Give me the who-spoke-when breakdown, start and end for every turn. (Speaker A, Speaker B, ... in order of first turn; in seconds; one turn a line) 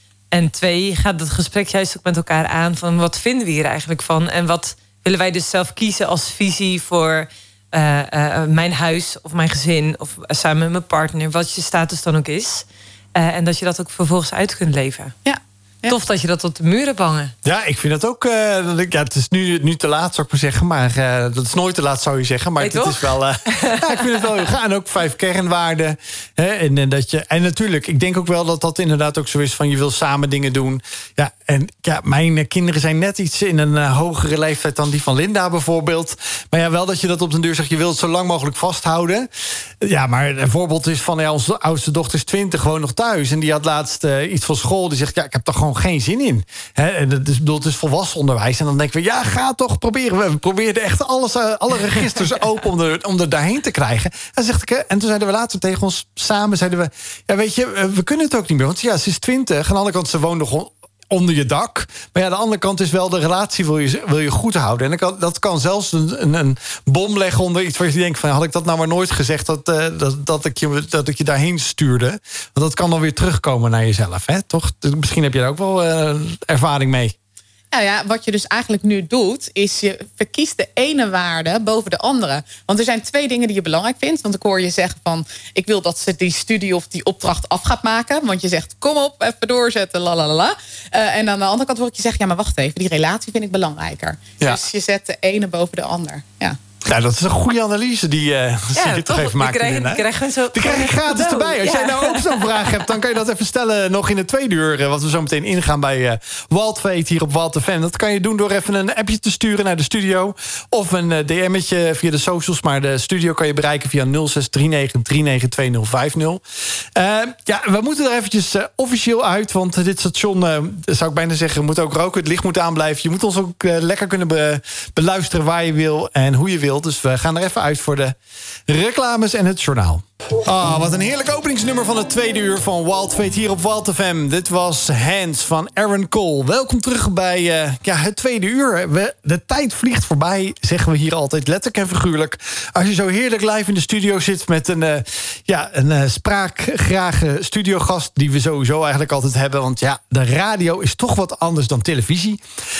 Speaker A: 0.3-15.1
Speaker B: 15.2-16.0
Speaker A: 15.9-17.3
Speaker C: 17.4-39.3
Speaker A: 22.6-24.4
Speaker C: 39.8-77.1
Speaker B: 77.7-96.6
Speaker C: 96.8-100.0
Speaker A: 98.8-102.8
Speaker C: 100.5-116.4
Speaker C: 117.0-128.2
Speaker C: 128.7-152.4